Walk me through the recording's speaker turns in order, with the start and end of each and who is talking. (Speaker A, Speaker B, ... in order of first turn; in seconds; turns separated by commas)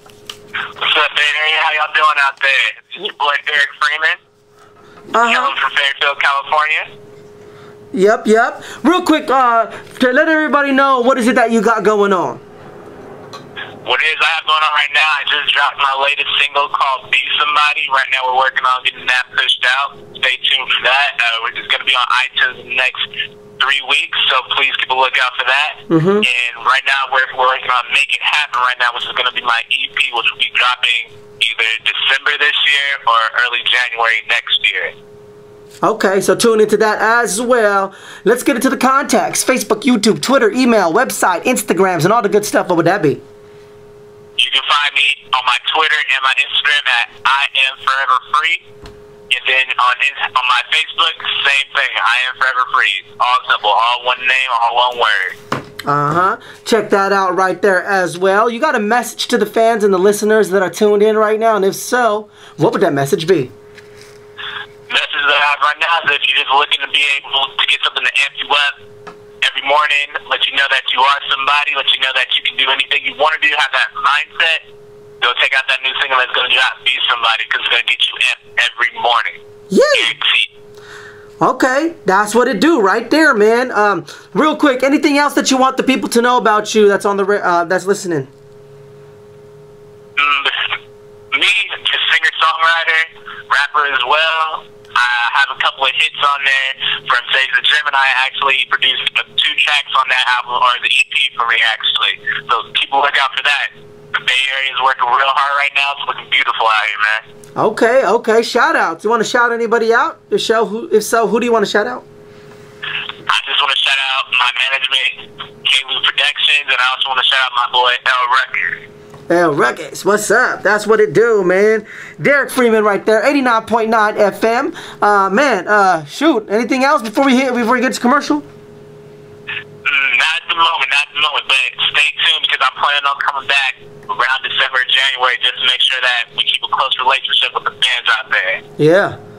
Speaker A: 0.8-4.2, Speaker B: 5.1-5.5, Speaker A: 5.2-6.8, Speaker B: 7.9-12.4, Speaker A: 13.8-23.0, Speaker A: 23.6-34.9, Speaker B: 25.9-26.2, Speaker B: 35.8-43.2, Speaker A: 44.4-48.6, Speaker A: 49.3-55.3, Speaker B: 55.9-63.5, Speaker A: 64.9-68.7, Speaker A: 69.4-74.6, Speaker A: 75.2-79.4, Speaker B: 79.7-80.1, Speaker A: 79.9-80.5, Speaker B: 81.4-88.3, Speaker A: 90.2-90.5, Speaker A: 91.3-107.2, Speaker B: 107.6-112.0, Speaker A: 113.3-118.8, Speaker B: 119.3-128.4, Speaker A: 129.8-138.6, Speaker B: 138.8-139.2